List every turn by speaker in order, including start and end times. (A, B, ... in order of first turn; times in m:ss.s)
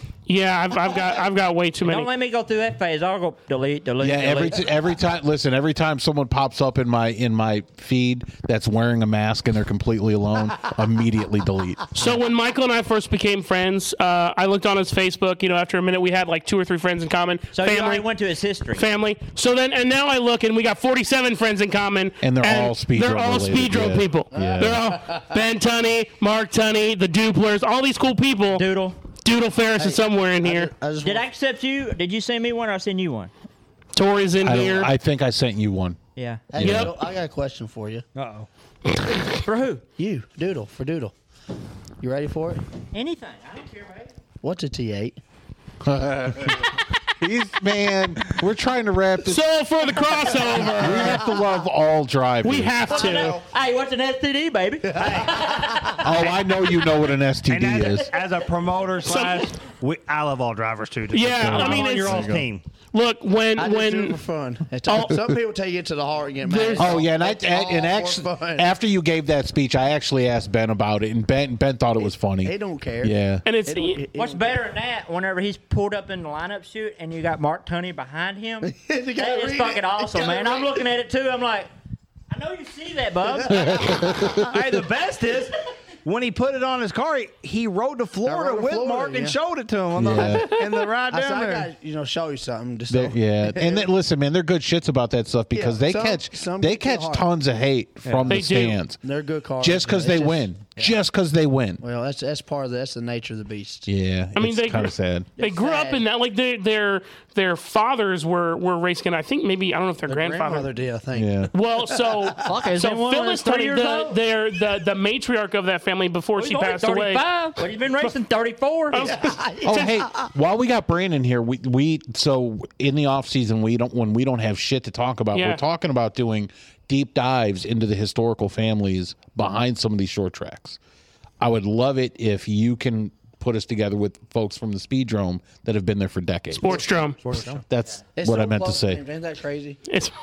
0:00.3-0:02.1 A
0:01.8-0:04.7 B
0:04.0-0:12.2 C
0:11.9-0:18.0 A
0:17.5-0:18.8 B
0:18.8-0:28.6 A
0:22.2-0:24.8 C
0:24.3-0:25.2 D
0:28.5-0:29.0 B
0:29.2-0:30.7 A
0:30.4-0:31.2 D
0:31.0-0:33.3 B
0:33.9-0:34.9 A
0:34.4-0:36.0 C
0:36.2-0:36.4 B
0:36.5-0:38.0 D
0:36.6-0:36.9 C
0:36.6-0:36.9 A
0:38.1-0:38.5 E
0:39.3-0:39.8 B
0:40.0-0:41.1 D
0:42.0-0:42.6 D
0:42.9-0:44.1 B
0:44.4-0:45.2 D
0:45.8-0:49.4 C
0:49.2-0:51.3 A
0:50.7-0:52.9 C
0:52.4-0:53.4 A
0:52.9-0:53.4 D
0:52.9-0:56.3 B
0:55.0-0:55.5 E
0:55.0-0:56.0 D
0:56.0-0:58.1 C
0:57.5-1:02.6 E
0:59.0-0:59.5 A
1:01.1-1:02.3 A
1:01.4-1:02.4 C
1:02.9-1:04.2 A
1:03.6-1:08.7 D
1:04.8-1:05.2 A
1:06.4-1:07.0 A
1:06.8-1:13.4 C
1:12.0-1:14.6 D
1:13.4-1:14.0 A
1:14.1-1:21.7 B
1:18.6-1:20.8 D
1:22.3-1:24.2 B
1:23.4-1:24.4 D
1:23.5-1:24.5 C
1:24.4-1:31.7 E
1:28.2-1:29.4 D
1:29.9-1:30.5 C
1:30.1-1:33.9 D
1:32.9-1:39.0 C
1:35.5-1:37.3 D
1:38.0-1:38.3 E
1:38.3-1:38.8 A
1:39.0-1:41.0 D
1:39.6-1:41.8 C
1:41.8-1:43.9 D
1:43.9-1:45.3 C
1:44.4-1:50.7 A
1:45.4-1:46.0 D
1:50.1-1:52.5 D
1:51.1-1:51.5 C
1:51.5-1:57.2 A
1:52.4-1:54.2 B
1:56.4-1:59.2 B
1:58.9-1:59.9 A
1:59.0-2:00.3 D
1:59.6-2:10.8 C
2:05.3-2:05.6 A
2:11.4-2:16.9 C
2:16.5-2:17.2 A
2:16.7-2:17.5 D
2:17.2-2:17.6 E
2:17.6-2:19.0 C
2:18.2-2:19.8 D